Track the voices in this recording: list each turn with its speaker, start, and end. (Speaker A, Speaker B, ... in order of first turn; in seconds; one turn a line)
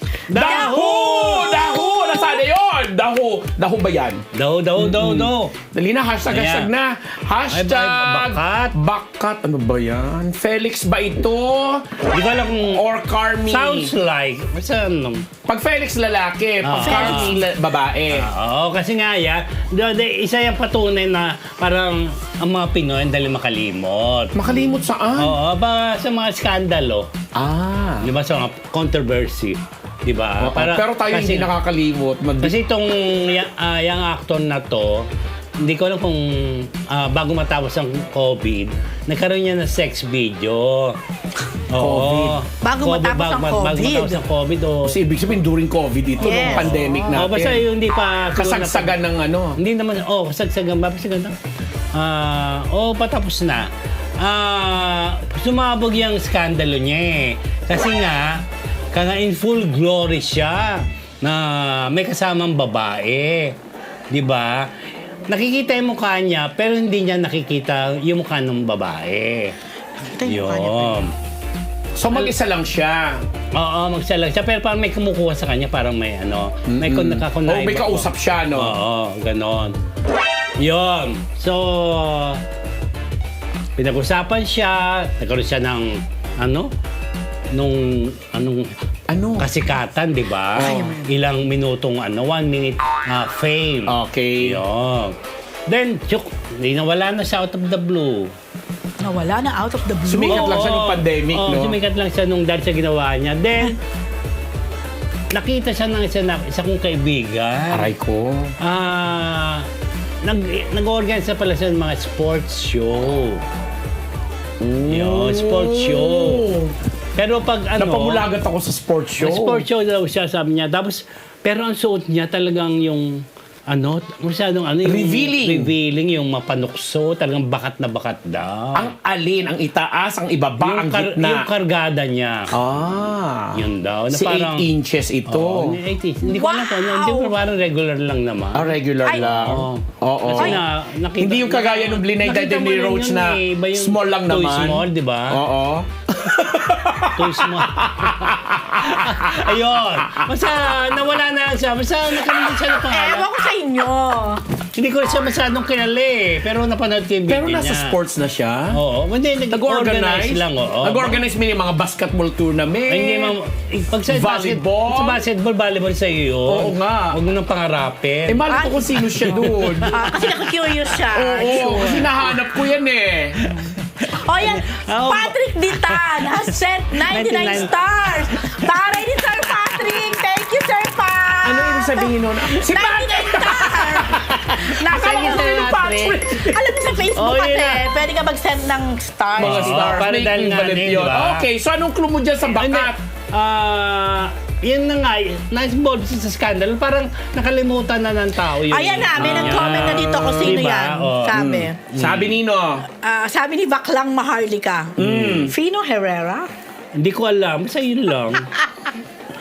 Speaker A: 0.3-1.7
Speaker B: 0.3-4.2
Speaker C: 0.4-2.2
Speaker A: 4.3-5.5
Speaker B: 4.8-11.9
Speaker A: 6.3-6.7
Speaker A: 7.5-8.7
Speaker A: 12.1-12.8
Speaker B: 12.7-13.9
Speaker A: 13.5-15.2
Speaker B: 15.5-18.2
Speaker A: 16.6-17.4
Speaker C: 16.8-17.4
Speaker A: 18.1-24.4
Speaker B: 24.3-25.3
Speaker A: 25.2-27.1
Speaker B: 27.3-28.1
Speaker A: 28.0-31.5
Speaker B: 30.4-32.5
Speaker A: 32.4-35.1
Speaker A: 35.6-41.0
Speaker A: 41.7-45.0
Speaker B: 41.8-42.4
Speaker C: 42.6-44.2
Speaker B: 44.8-47.6
Speaker C: 46.2-47.3
Speaker A: 46.2-49.0
Speaker B: 48.4-49.6
Speaker A: 49.6-51.3
Speaker A: 51.9-63.5
Speaker A: 64.1-64.7
Speaker A: 65.3-69.5
Speaker C: 70.0-71.0
Speaker A: 70.2-71.1
Speaker B: 72.0-73.2
Speaker A: 73.5-79.7
Speaker B: 76.7-78.7
Speaker A: 80.6-82.4
Speaker A: 83.8-86.7
Speaker A: 87.5-88.7
Speaker B: 89.1-89.5
Speaker A: 89.4-95.2
Speaker B: 90.5-91.0
Speaker C: 90.6-91.1
Speaker B: 93.9-94.6
Speaker A: 95.7-98.3
Speaker C: 99.0-100.5
Speaker B: 100.1-101.8
Speaker A: 100.3-103.8
Speaker A: 105.3-107.9
Speaker B: 107.7-108.5
Speaker A: 108.6-109.7
Speaker A: 110.2-113.4
Speaker B: 114.6-116.7
Speaker A: 114.9-116.5
Speaker A: 117.2-118.2
Speaker B: 117.8-119.6
Speaker A: 119.2-128.9
Speaker B: 124.8-125.7
Speaker B: 128.7-131.5
Speaker A: 130.6-132.5
Speaker B: 132.5-135.8
Speaker A: 133.5-134.7
Speaker A: 135.3-145.4
Speaker C: 136.2-137.3
Speaker B: 138.5-140.6
Speaker C: 139.0-139.5
Speaker B: 141.2-149.5
Speaker A: 147.1-153.2
Speaker C: 152.9-154.4
Speaker A: 154.7-157.9
Speaker B: 157.3-158.7
Speaker A: 158.7-161.2
Speaker B: 159.5-163.3
Speaker A: 162.9-170.3
Speaker B: 164.1-165.2
Speaker B: 166.5-167.2
Speaker B: 168.3-170.2
Speaker C: 168.5-172.1
Speaker A: 170.9-172.2
Speaker B: 171.1-173.4
Speaker C: 174.1-190.0
Speaker A: 174.4-176.4
Speaker A: 177.1-179.0
Speaker A: 179.5-180.1
Speaker B: 181.4-184.3
Speaker A: 184.0-186.2
Speaker B: 184.8-187.0
Speaker A: 187.1-187.8
Speaker B: 189.4-193.0
Speaker A: 189.4-191.4
Speaker A: 192.5-202.3
Speaker C: 198.7-201.8
Speaker B: 199.2-199.8
Speaker B: 201.3-202.8
Speaker C: 202.9-206.5
Speaker B: 205.0-205.5
Speaker A: 205.0-205.4
Speaker A: 206.9-208.5
Speaker C: 208.7-208.9